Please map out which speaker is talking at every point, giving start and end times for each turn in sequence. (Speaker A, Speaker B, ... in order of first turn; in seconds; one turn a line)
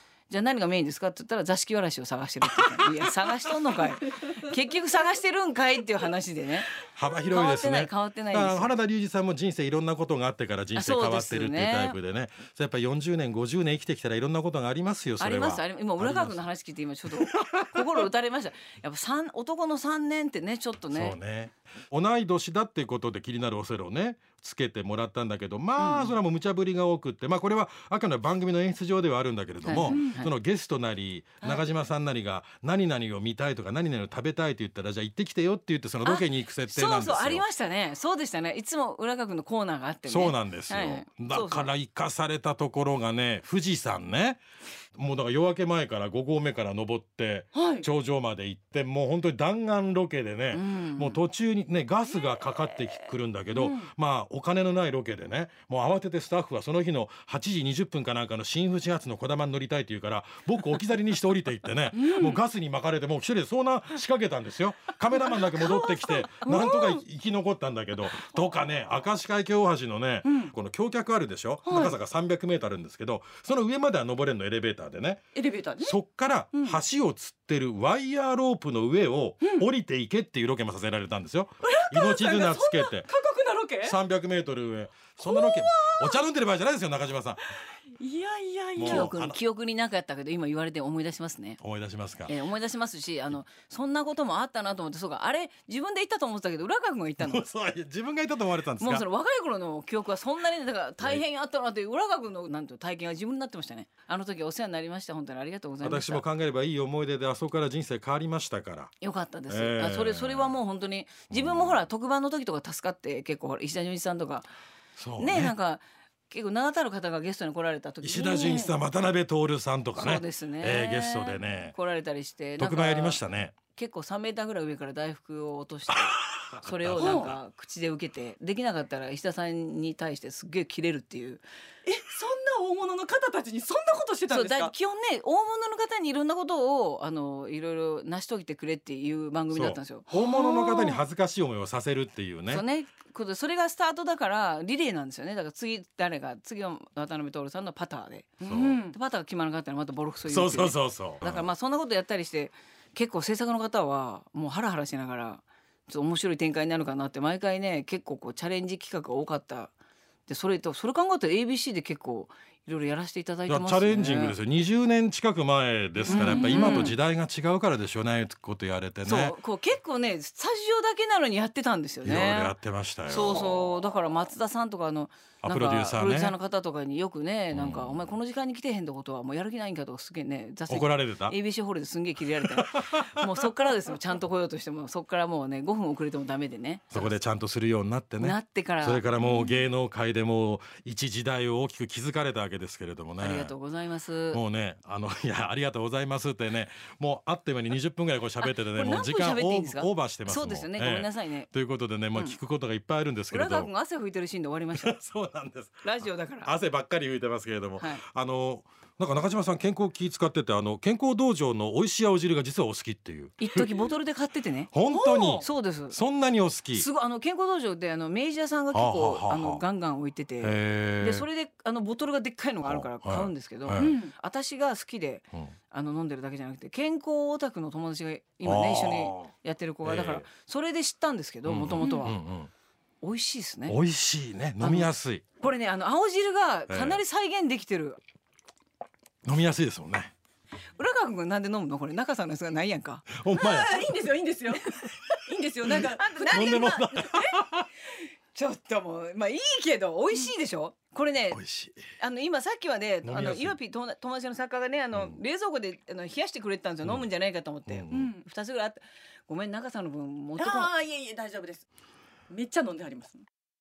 Speaker A: 0.3-6.7
Speaker B: 6.9-16.4
Speaker A: 7.3-8.7
Speaker A: 10.7-12.0
Speaker A: 15.2-21.2
Speaker B: 17.1-18.1
Speaker B: 20.9-37.4
Speaker A: 25.8-26.1
Speaker A: 29.6-30.3
Speaker C: 29.8-30.1
Speaker A: 36.0-41.7
Speaker B: 40.0-44.4
Speaker B: 44.9-75.2
Speaker C: 47.5-47.9
Speaker A: 50.5-51.2
Speaker C: 53.5-53.9
Speaker C: 61.9-62.4
Speaker C: 65.4-67.0
Speaker C: 70.2-70.5
Speaker C: 71.7-71.9
Speaker C: 75.3-76.0
Speaker B: 75.8-83.1
Speaker C: 76.5-76.8
Speaker C: 81.6-84.0
Speaker B: 83.8-87.4
Speaker C: 85.2-86.2
Speaker C: 88.0-89.1
Speaker B: 88.8-89.4
Speaker A: 88.8-91.6
Speaker B: 91.6-92.3
Speaker A: 92.2-97.4
Speaker B: 97.2-99.0
Speaker A: 98.8-106.2
Speaker B: 105.8-108.9
Speaker A: 109.0-114.5
Speaker B: 109.5-110.6
Speaker B: 111.3-111.8
Speaker B: 115.0-115.5
Speaker A: 115.2-118.7
Speaker B: 118.0-121.7
Speaker C: 118.3-118.7
Speaker A: 120.0-123.2
Speaker B: 122.6-123.5
Speaker A: 123.7-131.4
Speaker B: 125.9-127.4
Speaker C: 127.0-127.3
Speaker C: 131.8-134.7
Speaker A: 134.3-140.1
Speaker B: 139.5-142.6
Speaker C: 140.1-141.0
Speaker A: 142.5-148.4
Speaker C: 148.4-148.9
Speaker B: 148.4-148.8
Speaker A: 148.9-159.7
Speaker B: 150.2-151.5
Speaker A: 160.3-164.4
Speaker B: 163.5-169.3
Speaker C: 166.1-166.9
Speaker A: 166.1-166.9
Speaker A: 169.0-172.5
Speaker B: 172.0-173.7
Speaker A: 173.1-187.1
Speaker B: 175.4-176.3
Speaker B: 177.5-178.1
Speaker B: 180.7-181.3
Speaker B: 182.4-183.5
Speaker B: 186.9-193.5
Speaker A: 188.2-189.1
Speaker C: 189.2-189.5
Speaker A: 193.2-194.4
Speaker B: 194.3-203.7
Speaker A: 198.4-201.5
Speaker A: 202.1-202.4
Speaker A: 203.3-204.9
Speaker B: 204.8-213.7
Speaker A: 205.8-206.5
Speaker A: 213.4-214.7
Speaker B: 214.7-216.9
Speaker C: 214.8-215.5
Speaker A: 215.4-216.0
Speaker A: 216.7-232.2
Speaker B: 218.7-219.6
Speaker B: 220.4-221.2
Speaker B: 222.6-224.0
Speaker C: 223.7-224.1
Speaker B: 228.4-229.3
Speaker B: 229.8-230.2
Speaker B: 231.4-232.5
Speaker C: 231.8-232.1
Speaker A: 233.0-233.8
Speaker B: 233.7-235.2
Speaker A: 234.6-238.0
Speaker B: 236.7-237.0
Speaker B: 239.2-240.1
Speaker A: 240.8-243.1
Speaker B: 243.1-243.9
Speaker C: 243.3-246.8
Speaker A: 245.7-247.4
Speaker B: 245.7-247.7
Speaker A: 248.3-251.4
Speaker B: 251.3-251.8
Speaker A: 252.0-260.7
Speaker B: 253.0-253.6
Speaker B: 257.7-258.1
Speaker C: 257.9-258.2
Speaker C: 260.4-261.6
Speaker C: 262.3-263.2